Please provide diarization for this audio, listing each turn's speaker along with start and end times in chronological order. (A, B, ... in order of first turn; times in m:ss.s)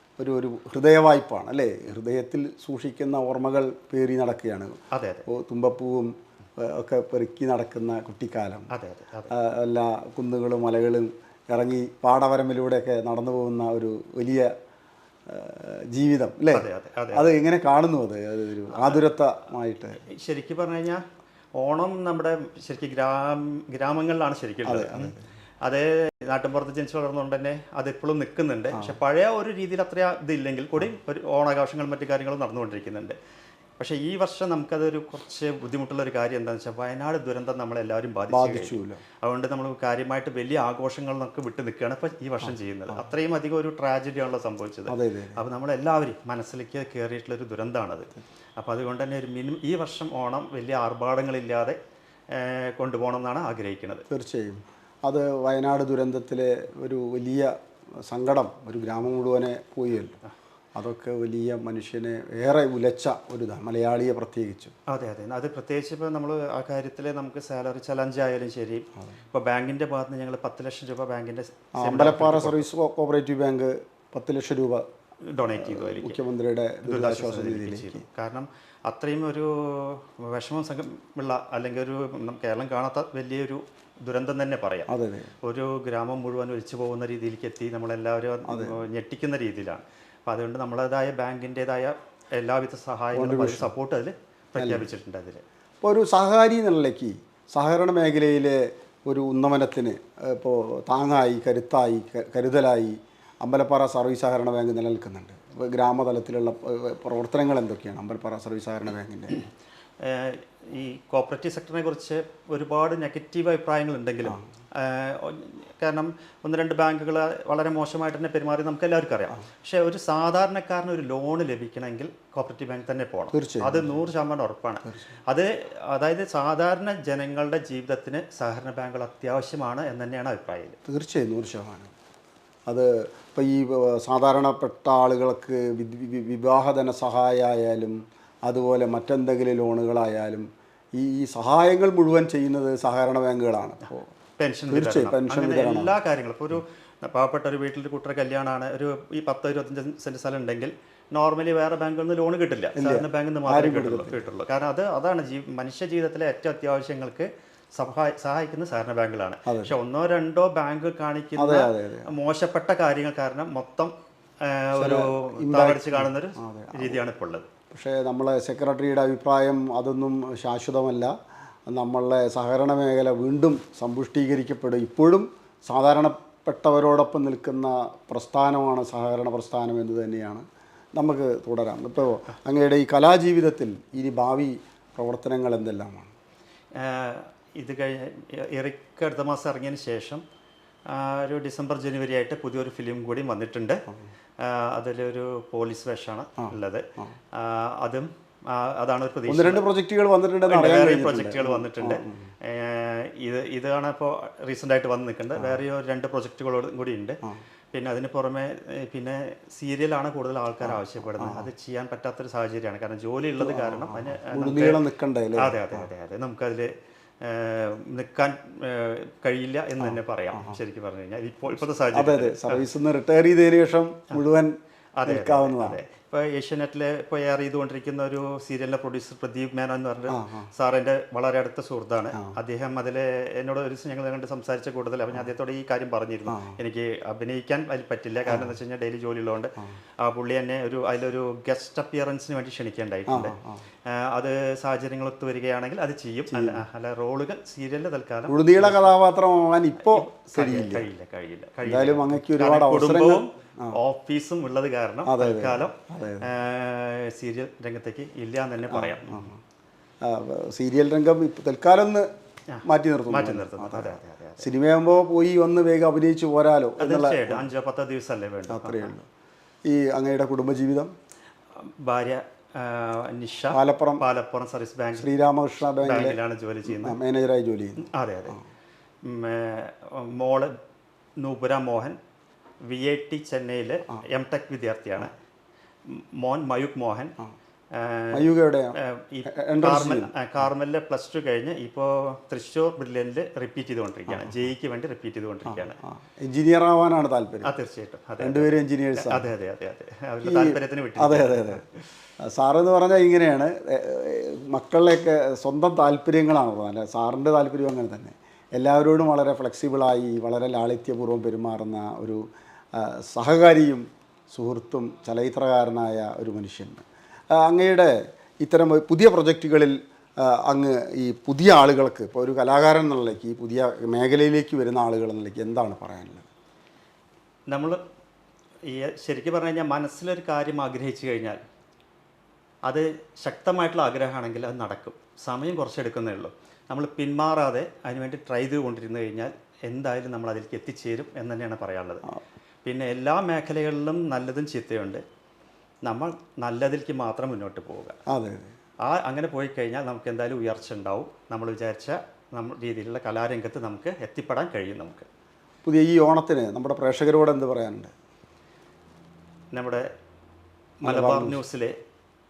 0:00.2-0:04.8 A
0:04.9-0:05.3 B
0:05.3-0:08.7 A
0:08.7-0:09.3 B
0:09.3-0:14.5 A
0:15.3-0:20.0 A
0:16.5-0:17.3 B
0:18.7-0:19.0 B
0:20.1-0:21.0 B
0:21.6-0:33.2 B
0:24.6-0:25.2 A
0:28.7-0:29.0 A
0:33.8-0:51.8 B
0:38.3-0:39.0 A
0:44.9-0:45.4 A
0:52.3-0:54.0 B
0:54.1-0:57.5 A
0:58.1-1:00.2 A
1:00.8-1:04.7 A
1:04.9-1:12.7 B
1:11.8-1:14.8 A
1:15.3-1:16.2 B
1:15.5-1:18.0 A
1:16.8-1:24.9 B
1:24.9-1:25.3 A
1:25.4-1:35.4 B
1:28.5-1:28.8 A
1:33.2-1:33.7 A
1:34.6-1:34.9 A
1:35.8-1:49.4 A
1:50.0-2:10.8 B
2:03.3-2:03.9 A
2:10.9-2:11.9 A
2:12.7-2:24.1 A
2:24.4-2:43.9 B
2:24.7-2:26.0 A
2:32.8-2:34.2 A
2:39.5-2:39.8 A
2:41.4-2:42.1 A
2:44.4-2:47.5 B
2:44.8-2:47.0 A
2:47.7-2:51.1 A
2:51.7-3:00.4 A
3:01.0-3:06.1 A
3:06.8-3:10.2 B
3:10.9-3:13.8 B
3:14.4-3:16.8 B
3:16.4-3:17.1 A
3:17.4-3:19.7 B
3:19.3-3:22.3 A
3:20.5-3:27.2 B
3:27.7-3:34.8 B
3:30.6-3:31.5 A
3:33.4-3:35.9 A
3:35.4-3:36.7 B
3:37.2-3:42.6 B
3:39.8-3:40.6 A
3:41.9-3:45.8 A
3:45.0-4:03.4 B
3:50.1-3:50.5 A
3:56.3-3:56.6 A
3:58.3-3:58.5 A
4:03.1-4:03.6 A
4:03.9-4:09.0 B
4:06.3-4:06.6 A
4:08.3-4:10.9 A
4:09.8-4:19.3 B
4:11.6-4:13.8 A
4:15.0-4:16.3 A
4:18.7-4:19.4 A
4:20.0-4:22.1 A
4:22.5-4:24.5 B
4:22.6-4:27.5 A
4:26.8-4:28.9 B
4:28.5-4:29.1 A
4:29.7-4:30.9 A
4:31.6-4:35.1 B
4:33.5-4:34.0 A
4:35.0-4:38.3 A
4:35.6-4:37.0 B
4:37.8-4:38.4 B
4:39.0-4:40.5 B
4:41.2-4:42.0 B
4:42.7-4:45.1 B
4:45.9-4:47.2 B
4:47.7-4:55.8 B
4:48.1-4:48.8 A
4:49.3-4:50.1 A
4:54.1-4:54.4 A
4:55.5-4:57.5 A
4:57.4-5:01.6 B
4:58.2-4:59.3 A
5:00.2-5:01.6 A
5:02.3-5:12.2 A
5:12.8-5:26.3 A
5:27.5-5:27.8 B
5:28.7-5:31.4 B
5:32.7-5:42.0 B
5:42.6-5:45.0 B
5:45.8-5:48.0 B
5:48.1-5:48.5 A
5:48.8-5:55.1 B
5:55.6-5:57.9 A
5:59.5-5:59.9 B
6:00.8-6:01.8 B
6:00.8-6:01.4 A